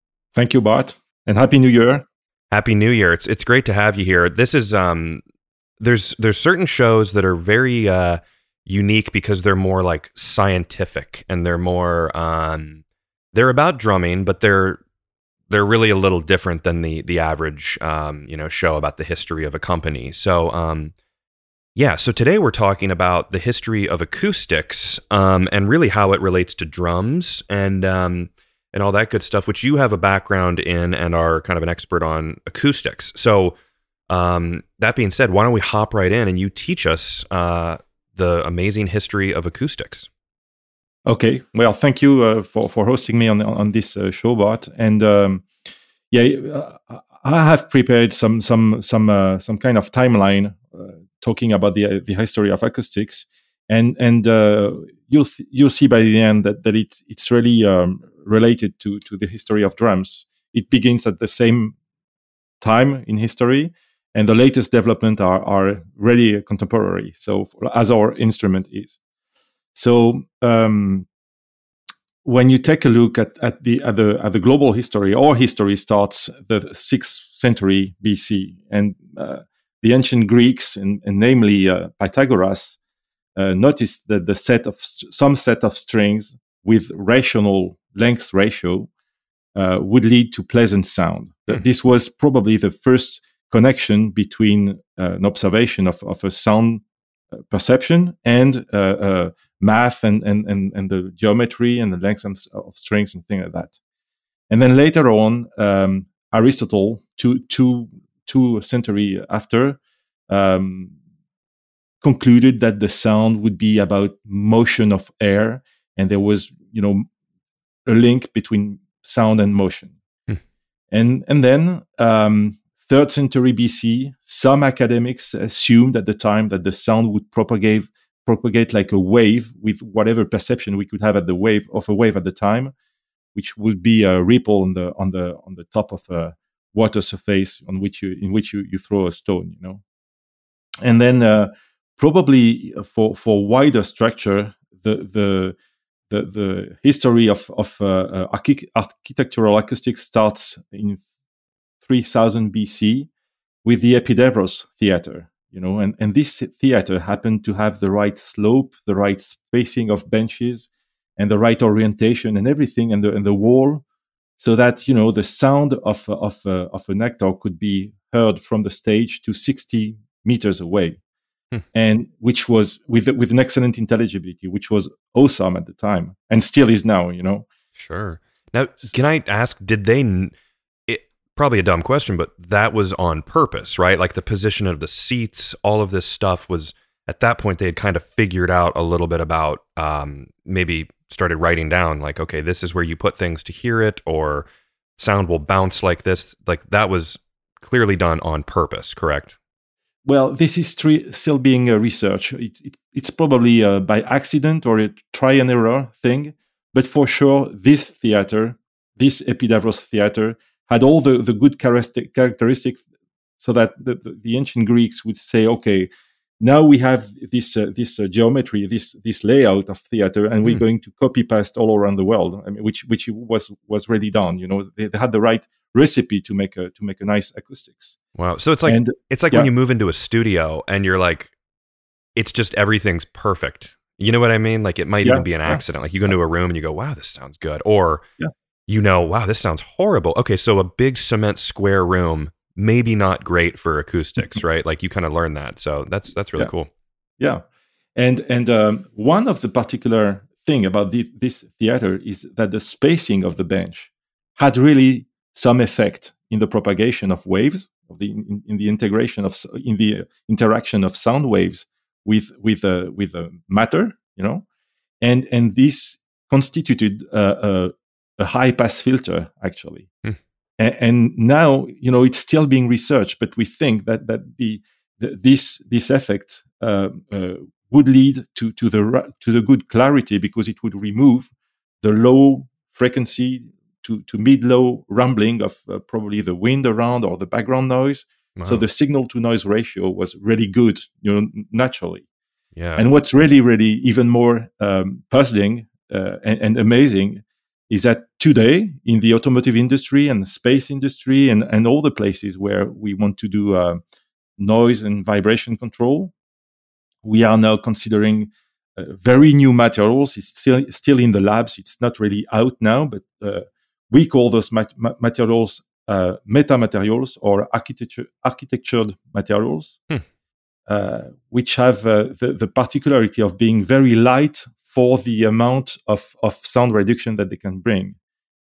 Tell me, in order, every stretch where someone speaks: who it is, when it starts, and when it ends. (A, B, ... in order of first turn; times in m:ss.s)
0:00.3-0:02.0 A
0:02.5-0:05.2 B
0:05.8-0:14.8 B
0:15.5-0:20.9 B
0:21.8-0:33.6 B
0:34.1-0:40.1 B
0:41.0-0:45.5 A
0:46.1-1:01.8 A
1:02.6-1:09.0 A
1:09.7-1:11.1 A
1:12.2-1:22.8 A
1:23.4-1:28.9 A
1:29.5-1:36.8 A
1:37.5-1:43.8 A
1:44.5-1:50.9 A
1:52.0-1:57.1 A
1:57.8-1:59.9 A
2:00.9-2:12.7 A
2:13.3-2:19.8 A
2:20.8-2:25.6 A
2:26.1-2:31.0 A
2:31.8-2:33.1 A
2:33.6-2:43.8 A
2:44.4-2:51.0 A
2:51.7-2:57.4 A
2:57.8-3:00.3 B
3:00.9-3:14.4 B
3:15.0-3:19.3 B
3:20.0-3:32.8 A
3:33.4-3:35.9 A
3:36.4-3:48.0 A
3:48.1-3:51.3 B
3:48.7-3:49.5 A
3:52.2-3:58.0 B
3:55.0-3:55.6 A
3:58.7-4:06.7 B
4:08.0-4:24.4 A
4:25.0-4:29.9 A
4:30.6-4:41.3 A
4:41.8-4:52.0 A
4:48.4-4:48.6 B
4:52.6-4:52.8 B
4:52.8-5:03.8 A
5:04.4-5:06.1 A
5:07.0-5:19.8 A
5:20.7-5:28.0 A